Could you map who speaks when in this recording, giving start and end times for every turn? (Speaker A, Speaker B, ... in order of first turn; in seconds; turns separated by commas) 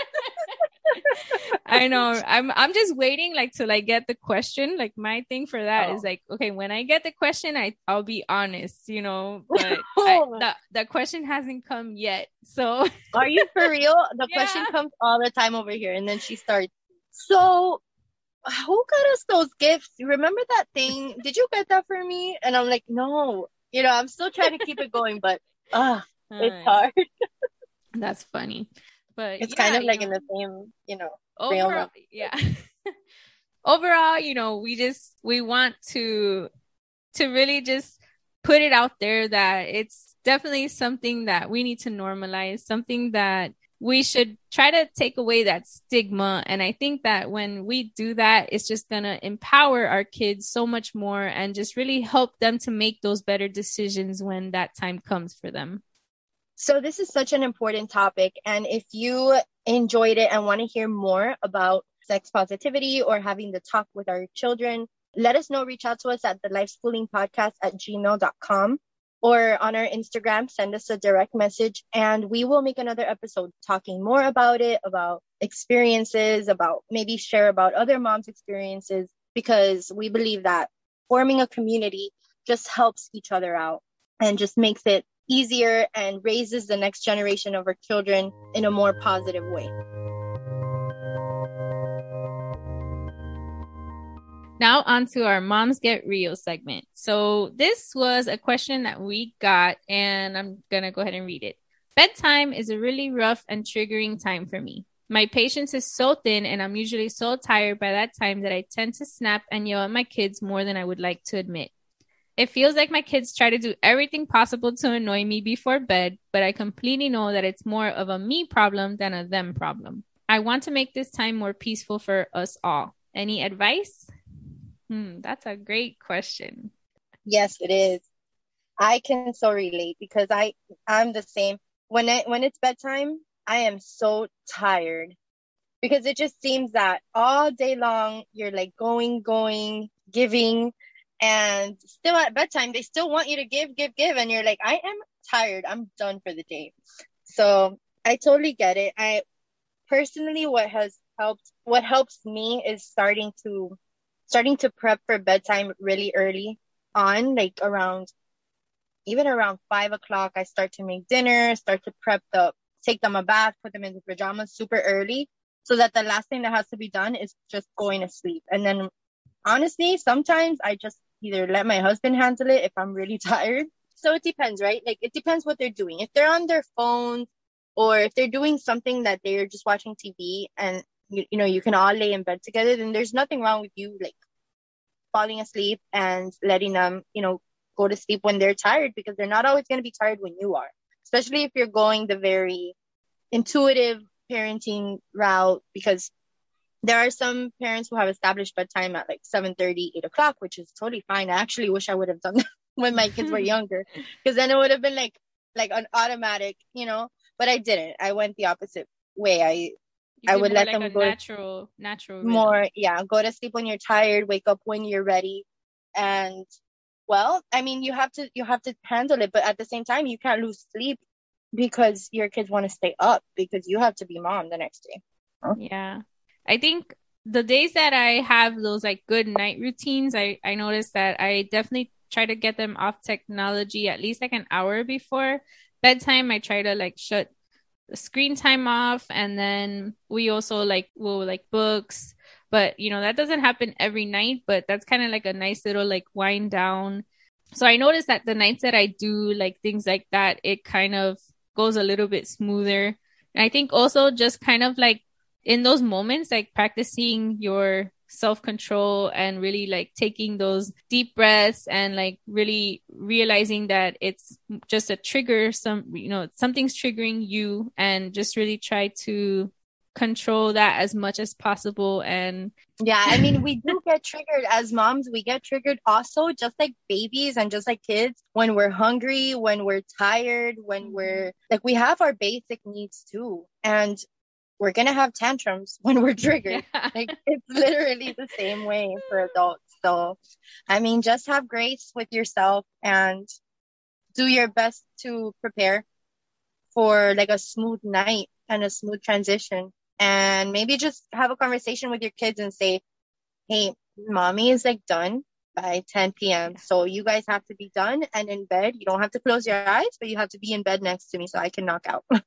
Speaker A: 0.5-13.5, Speaker B: 5.8-6.0, Speaker B: 9.6-10.4, Speaker B: 13.2-17.8, Speaker A: 14.3-14.7, Speaker B: 18.5-27.0, Speaker A: 26.3-26.8, Speaker A: 27.9-30.2, Speaker B: 29.4-31.9, Speaker A: 31.4-32.6, Speaker A: 33.7-36.5, Speaker A: 37.1-55.8, Speaker B: 56.6-89.7, Speaker A: 94.6-111.7, Speaker A: 112.4-124.1, Speaker A: 124.9-126.7, Speaker B: 127.2-128.0, Speaker B: 128.8-135.1, Speaker B: 135.8-146.7, Speaker B: 147.3-149.2, Speaker B: 149.9-153.8, Speaker B: 154.3-158.1, Speaker B: 159.1-168.9, Speaker B: 169.5-184.2, Speaker B: 185.1-192.8, Speaker B: 193.3-196.1, Speaker B: 196.8-209.8, Speaker A: 203.2-203.5, Speaker A: 210.2-212.6, Speaker B: 210.3-211.2, Speaker B: 212.2-215.4, Speaker B: 216.0-216.4, Speaker B: 217.1-221.0, Speaker B: 221.6-225.6, Speaker A: 225.6-237.3, Speaker A: 237.9-247.1, Speaker A: 247.6-272.5, Speaker B: 272.8-284.0, Speaker A: 273.1-273.7, Speaker A: 280.8-281.3, Speaker B: 284.6-293.3, Speaker A: 286.5-287.1, Speaker B: 294.1-295.9, Speaker B: 296.7-302.8, Speaker B: 303.5-312.0